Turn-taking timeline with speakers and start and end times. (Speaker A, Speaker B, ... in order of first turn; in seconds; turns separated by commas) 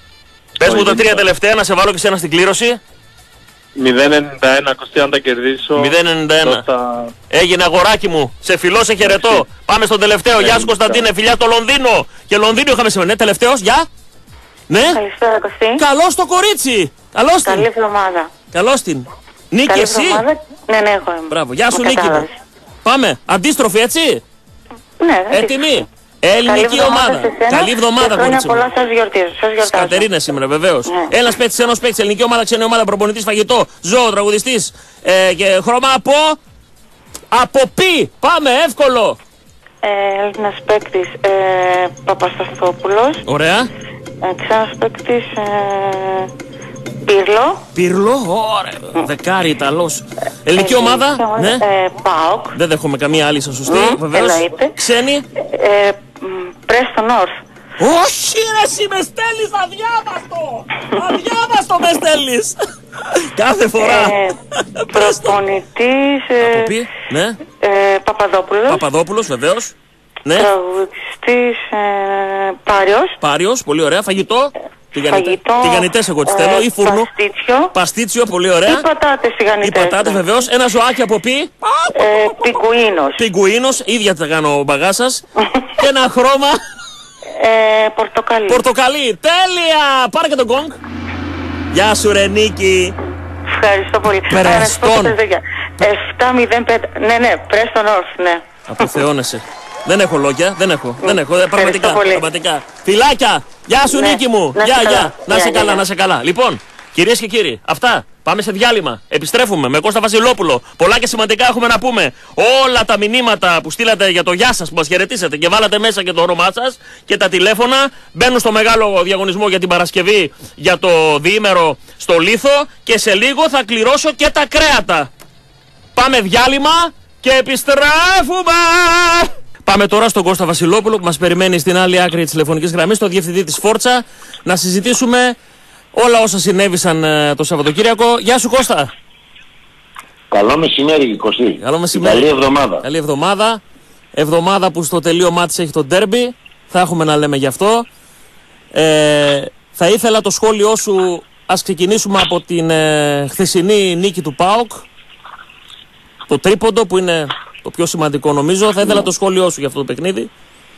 Speaker A: 0.6-2.8, Speaker B: 0.6-1.3, Speaker B: 3.8-7.1, Speaker A: 5.8-6.6, Speaker A: 7.3-13.9, Speaker B: 9.0-9.4, Speaker B: 10.4-11.1, Speaker A: 14.7-15.0, Speaker C: 14.9-15.8, Speaker A: 15.8-17.7, Speaker C: 17.4-18.3, Speaker A: 18.5-20.2, Speaker C: 19.7-22.3, Speaker A: 21.3-22.3, Speaker A: 22.9-24.2, Speaker C: 25.0-25.8, Speaker A: 25.3-28.6, Speaker C: 26.5-30.1, Speaker A: 29.6-36.4, Speaker A: 37.3-39.2, Speaker C: 39.8-43.2, Speaker A: 43.3-43.7, Speaker C: 44.2-46.3, Speaker C: 47.1-47.6, Speaker A: 47.8-51.6, Speaker C: 50.6-52.6, Speaker A: 52.5-55.2, Speaker C: 53.7-54.8, Speaker C: 55.5-57.3, Speaker A: 57.8-64.2, Speaker C: 63.8-64.4, Speaker A: 64.8-65.4, Speaker C: 64.9-66.7, Speaker A: 66.4-67.4, Speaker C: 67.6-68.8, Speaker A: 68.7-69.7, Speaker C: 70.4-73.2, Speaker A: 73.2-77.1, Speaker C: 75.1-77.7, Speaker A: 77.7-78.8, Speaker C: 78.7-80.3, Speaker A: 79.6-82.5, Speaker C: 82.0-83.2, Speaker A: 83.2-85.2, Speaker A: 85.8-86.6, Speaker C: 87.4-88.6, Speaker A: 88.5-90.8, Speaker A: 91.7-93.0, Speaker C: 93.5-98.9, Speaker A: 94.3-95.2, Speaker A: 98.7-125.1, Speaker C: 101.0-102.2, Speaker C: 103.9-105.8, Speaker A: 126.0-135.4, Speaker A: 135.9-138.9, Speaker D: 140.3-142.8, Speaker A: 141.6-142.3, Speaker A: 142.8-143.6, Speaker A: 144.2-147.9, Speaker A: 148.7-154.9, Speaker A: 156.3-160.3